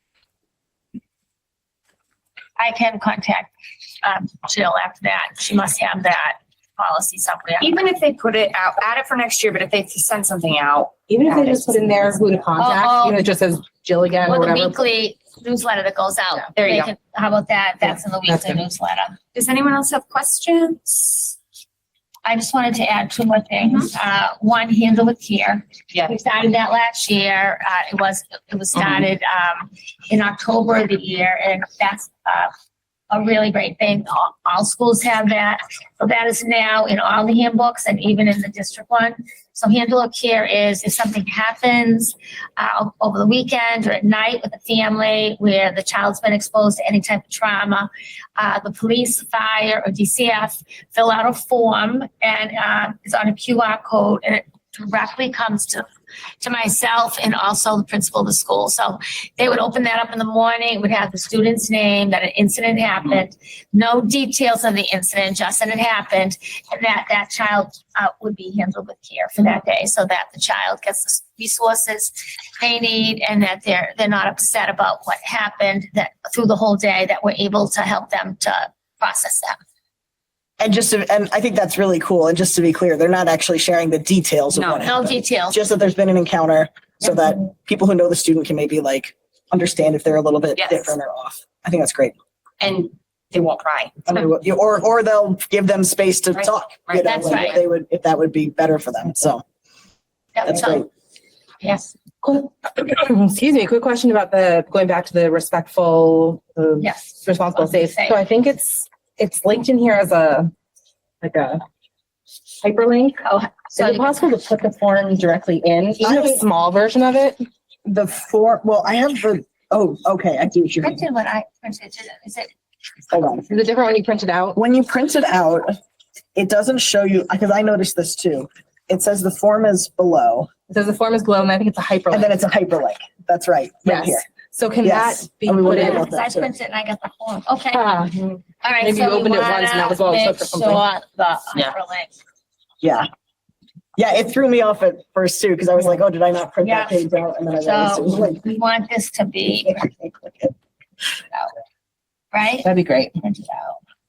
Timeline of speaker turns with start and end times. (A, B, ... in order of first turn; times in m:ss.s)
0:02.6-0:03.5 A
0:04.0-0:07.8 A
0:07.6-0:12.2 B
0:11.1-0:14.8 C
0:12.6-0:13.2 A
0:14.3-0:19.2 A
0:16.6-0:16.9 B
0:18.3-0:18.6 C
0:19.3-0:21.4 B
0:22.2-0:32.5 A
0:33.1-0:55.9 A
0:56.4-1:19.6 A
1:20.6-1:32.2 D
1:24.5-1:24.9 B
1:24.8-1:25.6 A
1:30.6-1:31.0 B
1:32.6-1:34.2 B
1:34.1-1:39.4 D
1:36.4-1:37.6 B
1:37.0-1:37.6 A
1:40.4-1:40.9 A
1:40.4-1:40.9 D
1:41.6-1:41.9 A
1:42.2-1:50.5 C
1:46.8-1:48.2 A
1:51.2-1:51.6 C
1:52.6-1:57.4 C
1:53.2-1:54.2 A
1:56.0-1:56.4 D
1:57.8-2:01.0 D
2:00.8-2:02.5 A
2:03.1-2:03.5 D
2:03.5-2:04.6 C
2:04.6-2:05.8 D
2:06.4-2:10.5 D
2:10.7-2:12.4 C
2:12.1-2:14.2 D
2:13.8-2:16.1 C
2:14.8-2:16.5 D
2:15.6-2:18.0 A
2:17.7-2:20.8 C
2:18.6-2:22.1 A
2:22.8-2:23.1 D
2:24.0-2:28.4 D
2:26.6-2:27.0 A
2:27.6-2:29.9 A
2:29.8-2:30.5 D
2:32.3-2:33.8 A
2:32.6-2:33.1 C